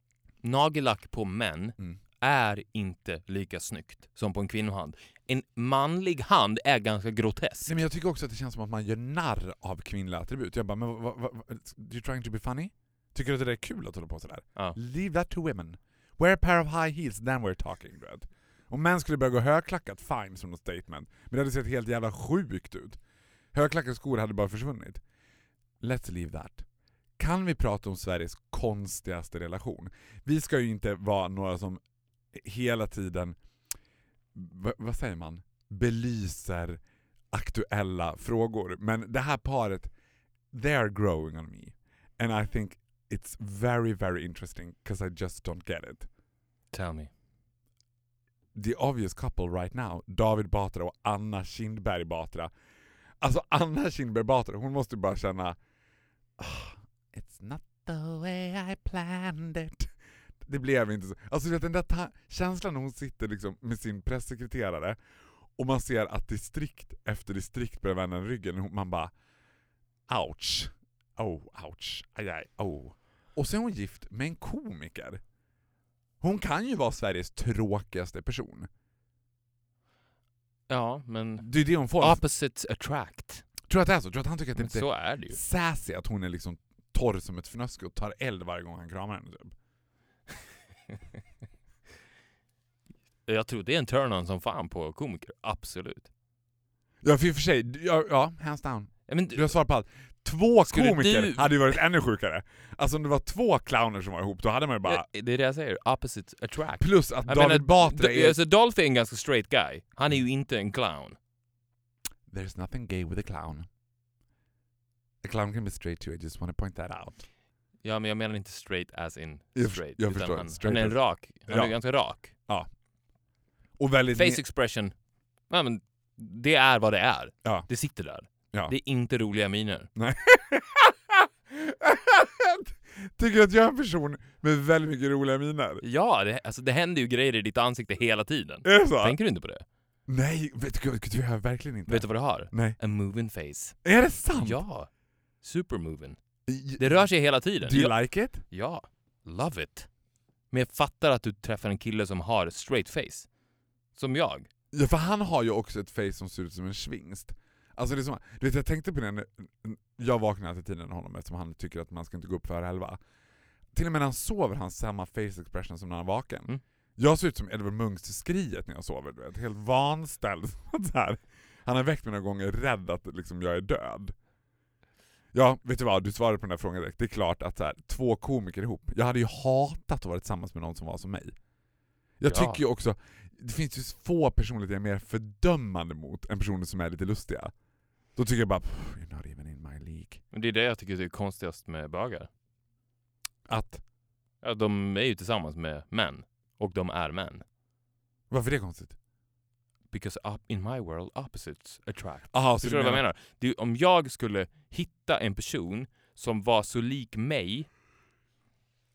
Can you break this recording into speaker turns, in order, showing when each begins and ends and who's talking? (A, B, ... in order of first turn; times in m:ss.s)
0:00.4-0:07.7 A
0:07.7-0:23.0 B
0:23.5-0:25.0 B
0:25.8-0:26.7 B
0:27.2-0:31.8 B
0:32.3-0:33.4 B
0:34.3-0:39.9 B
0:40.5-0:46.1 B
0:46.7-0:47.1 A
0:48.6-0:52.5 B
0:53.2-0:55.6 B
0:56.4-0:59.9 B
1:00.4-1:05.0 B
1:05.6-1:09.1 B
1:10.1-1:15.2 B
1:16.2-1:18.7 B
1:20.7-1:23.5 A
1:21.4-1:22.2 B
1:23.7-1:29.6 B
1:24.6-1:25.4 A
1:33.3-1:36.1 A
1:37.0-1:45.1 B
1:39.1-1:39.5 A
1:40.7-1:41.8 A
1:44.8-1:51.2 A
1:46.8-1:48.4 B
1:52.3-1:53.7 B
1:55.2-1:57.2 B
1:57.8-2:02.3 A
1:59.6-2:01.8 B
2:02.4-2:02.7 B
2:03.8-2:04.4 B
2:04.1-2:04.9 A
2:05.5-2:09.9 A
2:07.4-2:07.7 B
2:10.0-2:15.8 B
2:15.8-2:19.6 A
2:18.6-2:19.2 B
2:20.1-2:22.8 B
2:21.9-2:23.8 A
2:23.8-2:24.6 B
2:24.4-2:24.9 A
2:25.4-2:26.2 A
2:26.5-2:27.0 B
2:26.8-2:29.9 A
2:27.6-2:28.4 B
2:30.5-2:33.3 A
2:33.9-2:34.5 A
2:34.7-2:43.0 B
2:43.7-2:54.1 B
2:55.3-3:01.4 B
3:02.2-3:07.5 B
3:02.3-3:02.6 A
3:08.2-3:10.2 B
3:10.3-3:12.3 A
3:13.5-3:13.8 B
3:14.4-3:17.4 A
3:18.3-3:19.0 B
3:19.9-3:27.7 A
3:22.3-3:23.0 B